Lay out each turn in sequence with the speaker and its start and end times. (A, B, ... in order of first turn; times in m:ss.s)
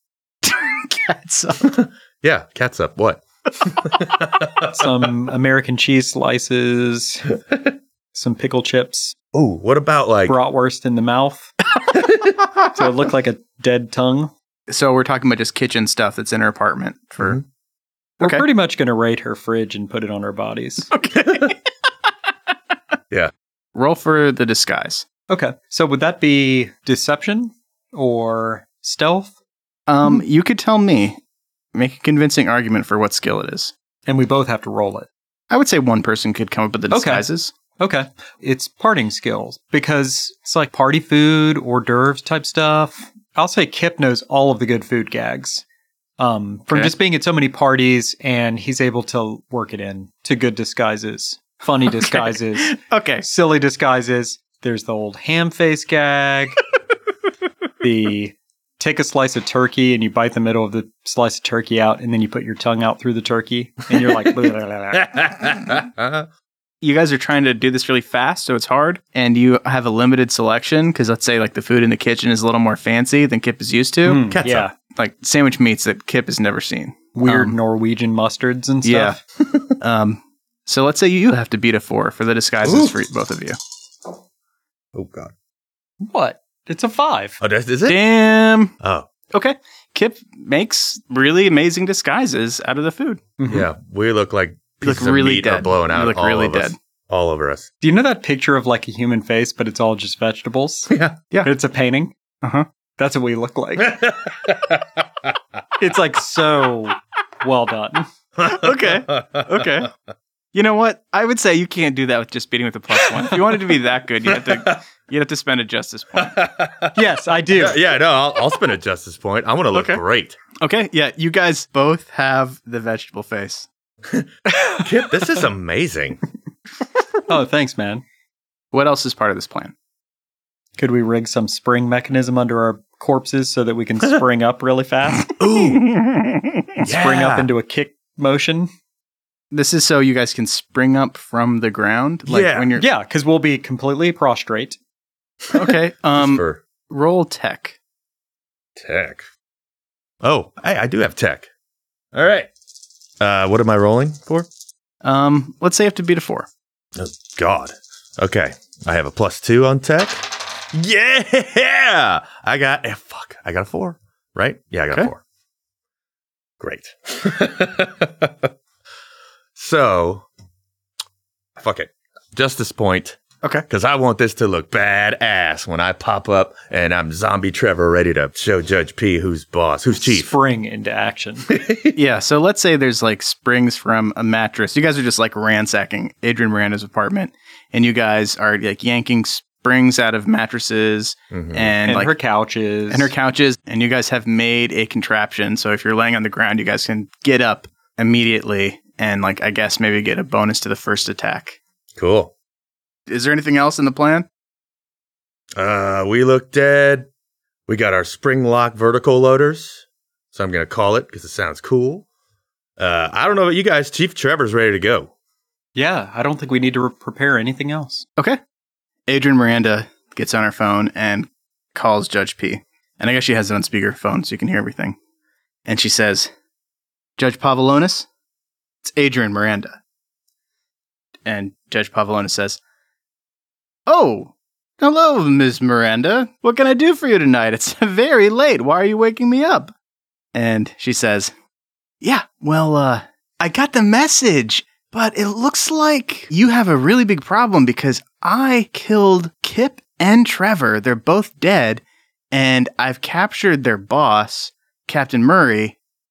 0:00.4-0:01.7 A
0:01.6-0:04.7 B
0:04.6-0:07.3 C
0:08.1-0:09.1 C
0:09.3-0:10.4 B
0:10.3-0:11.5 C
0:12.7-0:14.3 C
0:14.7-0:17.4 A
0:18.2-0:20.9 C
0:20.9-0:21.6 A
0:23.7-0:25.0 A
0:25.3-0:29.3 C
0:29.9-0:31.2 A
0:31.7-0:33.7 A
0:34.0-0:35.1 C
0:35.5-0:37.5 A
0:36.9-0:37.2 C
0:37.8-0:45.6 C
0:46.2-0:56.6 C
0:52.0-0:53.2 A
0:57.8-1:05.2 C
1:04.1-1:04.4 B
1:04.9-1:06.3 B
1:06.8-1:17.6 A
1:14.0-1:14.7 C
1:14.3-1:14.7 B
1:17.1-1:19.2 C
1:18.8-1:19.2 A
1:19.4-1:19.7 B
1:19.8-1:23.6 A
1:22.6-1:23.0 B
1:24.9-1:25.3 B
1:26.0-1:27.4 C
1:27.4-1:28.0 B
1:27.9-1:28.7 A
1:28.8-1:29.1 B
1:29.3-1:33.2 A
1:33.4-1:33.7 C
1:33.5-1:37.7 B
1:34.8-1:36.8 A
1:37.8-1:40.9 C
1:40.9-1:41.2 B
1:41.4-1:42.1 C
1:42.4-1:42.7 A
1:43.0-1:44.0 C
1:43.8-1:45.3 B
1:45.8-1:48.1 C
1:48.4-1:49.9 B
1:48.4-1:49.9 A
1:50.5-1:56.4 A
1:54.3-1:54.8 B
1:56.2-1:57.0 B
1:56.9-1:57.8 C
1:57.5-2:00.4 B
1:59.7-2:00.0 A
2:00.6-2:03.7 A
2:04.1-2:06.2 B
2:07.3-2:08.0 C
2:08.7-2:09.7 A
2:10.8-2:15.4 C
2:15.4-2:15.8 B
2:15.8-2:16.4 A
2:16.8-2:18.7 C
2:16.8-2:17.5 B
2:19.5-2:22.9 A
2:22.3-2:22.7 B
2:22.8-2:24.8 C
2:25.5-2:26.6 B
2:25.5-2:27.8 A
2:28.8-2:29.3 B
2:30.2-2:31.5 B
2:32.1-2:32.5 B
2:33.2-2:34.5 B
2:35.0-2:36.5 A
2:37.0-2:45.2 B
2:46.6-2:48.5 B
2:49.5-2:50.2 B
2:51.6-3:00.3 B
3:00.0-3:01.5 C
3:01.5-3:02.0 B
3:01.9-3:12.1 A
3:11.3-3:11.8 B
3:11.8-3:13.1 C
3:12.9-3:21.6 A
3:22.0-3:22.3 B
3:23.1-3:24.3 A
3:25.6-3:27.1 B
3:27.7-3:32.0 B
3:32.8-3:35.1 B
3:35.7-3:38.0 C
3:39.1-3:45.0 A
3:45.6-3:46.3 A
3:47.2-3:48.1 A
3:48.8-3:49.8 A
3:51.2-3:52.6 A
3:53.9-3:59.7 A
4:00.3-4:01.3 A
4:02.0-4:15.8 A